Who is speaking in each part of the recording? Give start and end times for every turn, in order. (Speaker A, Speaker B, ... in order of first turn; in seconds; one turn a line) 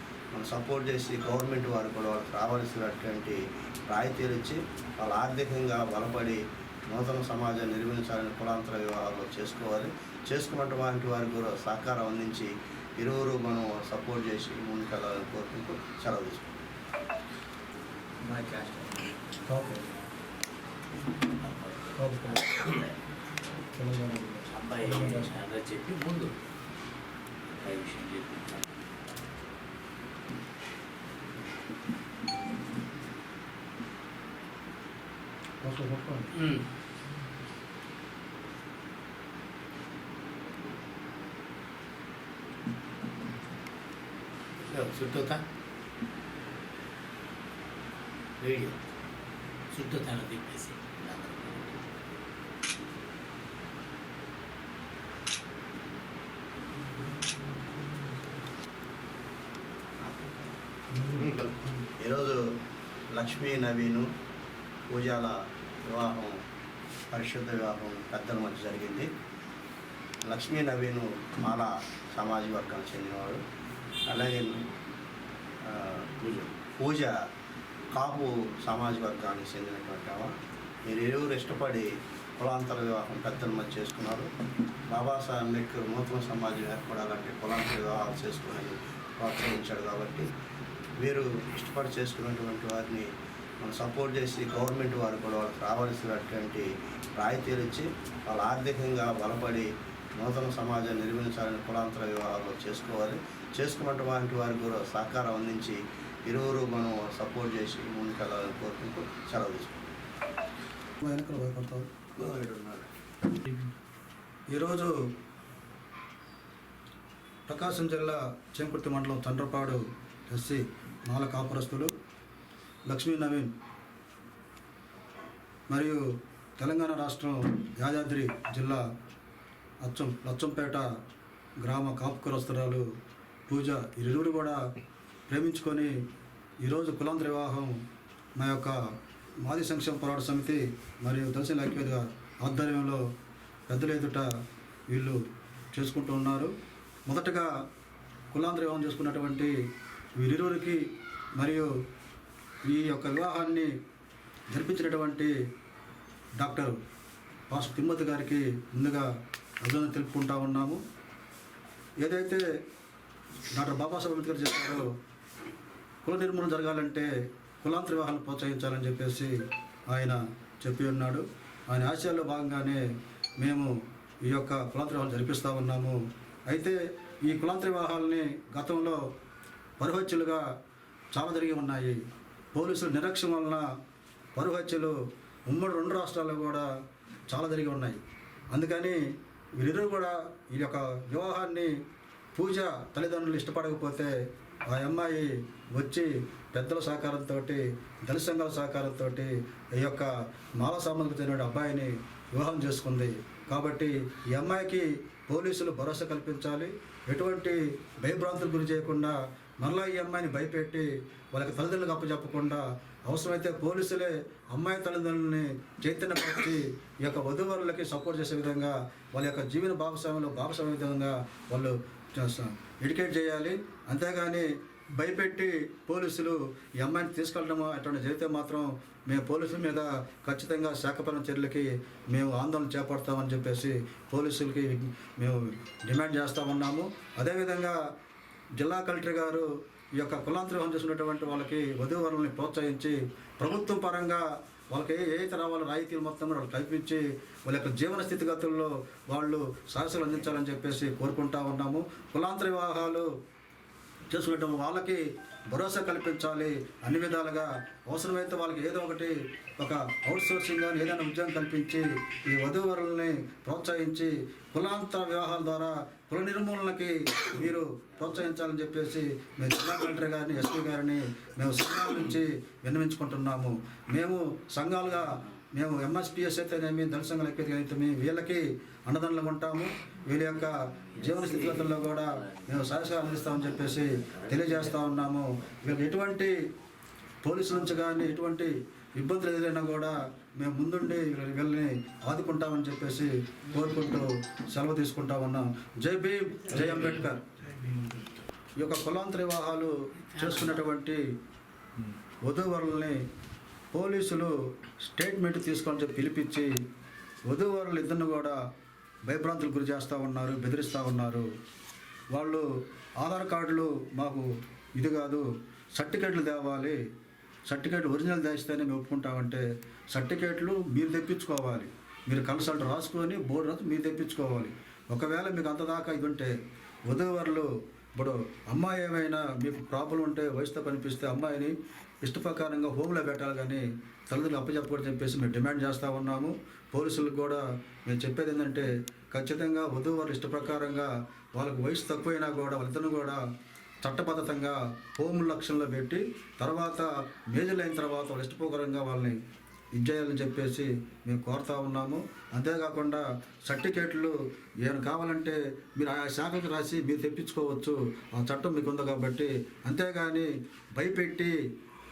Speaker A: 0.3-16.5
Speaker B: 18.2-19.2
Speaker C: 19.5-19.8
Speaker B: 21.4-22.9
Speaker C: 22.0-22.5
Speaker C: 23.7-25.4
Speaker B: 24.5-26.3
Speaker B: 27.5-28.9
Speaker C: 35.6-36.3
Speaker B: 36.3-36.6
Speaker B: 44.7-45.4
Speaker B: 48.4-48.7
Speaker B: 49.7-51.3
Speaker A: 61.1-62.4
Speaker A: 63.1-64.1
Speaker A: 64.9-66.4
Speaker A: 67.1-69.1
Speaker A: 70.2-73.4
Speaker A: 74.1-74.6
Speaker A: 75.7-77.1
Speaker A: 77.9-80.3
Speaker A: 80.9-84.3
Speaker A: 84.9-90.3
Speaker A: 91.0-93.1
Speaker A: 93.6-109.8
Speaker C: 111.0-111.9
Speaker A: 112.2-112.9
Speaker C: 114.5-114.9
Speaker C: 117.5-121.9
Speaker C: 122.9-123.5
Speaker C: 125.7-126.0
Speaker C: 126.6-128.8
Speaker C: 129.8-130.8
Speaker C: 131.6-132.8
Speaker C: 133.5-134.6
Speaker C: 135.3-135.9
Speaker C: 136.6-137.7
Speaker C: 138.4-138.7
Speaker C: 139.4-143.0
Speaker C: 143.7-144.2
Speaker C: 144.9-145.2
Speaker C: 145.7-146.5
Speaker C: 147.1-147.4
Speaker C: 148.3-149.5
Speaker C: 150.2-150.8
Speaker C: 151.4-151.7
Speaker C: 152.7-153.7
Speaker C: 154.5-155.3
Speaker C: 156.4-156.7
Speaker C: 157.5-159.0
Speaker C: 159.6-160.8
Speaker C: 162.0-162.4
Speaker C: 163.5-164.8
Speaker C: 166.0-167.1
Speaker C: 167.6-169.3
Speaker C: 169.9-172.8
Speaker C: 173.4-173.7
Speaker C: 174.3-175.9
Speaker C: 176.5-176.7
Speaker C: 177.2-179.0
Speaker C: 179.8-180.4
Speaker C: 181.1-181.9
Speaker C: 182.5-183.6
Speaker C: 184.3-184.9
Speaker C: 185.5-186.7
Speaker C: 187.3-188.0
Speaker C: 188.5-189.0
Speaker C: 189.6-191.7
Speaker C: 192.3-194.1
Speaker C: 194.7-200.1
Speaker C: 200.6-224.4
Speaker C: 225.0-237.8
Speaker C: 238.6-239.4
Speaker C: 240.0-244.2
Speaker C: 244.7-253.1
Speaker C: 254.1-255.0
Speaker C: 255.5-286.3
Speaker B: 281.0-284.8
Speaker C: 287.2-297.2
Speaker B: 296.5-297.0
Speaker C: 298.6-301.0
Speaker B: 300.1-300.6
Speaker C: 302.3-303.0
Speaker C: 303.7-304.3
Speaker C: 304.9-306.5
Speaker C: 307.3-308.3
Speaker C: 309.1-311.2
Speaker C: 312.1-312.4
Speaker C: 313.0-314.2
Speaker C: 314.8-315.2
Speaker C: 315.8-316.8
Speaker C: 317.5-326.3
Speaker C: 326.9-343.2
Speaker C: 343.8-349.2
Speaker C: 349.8-354.1
Speaker C: 354.6-361.3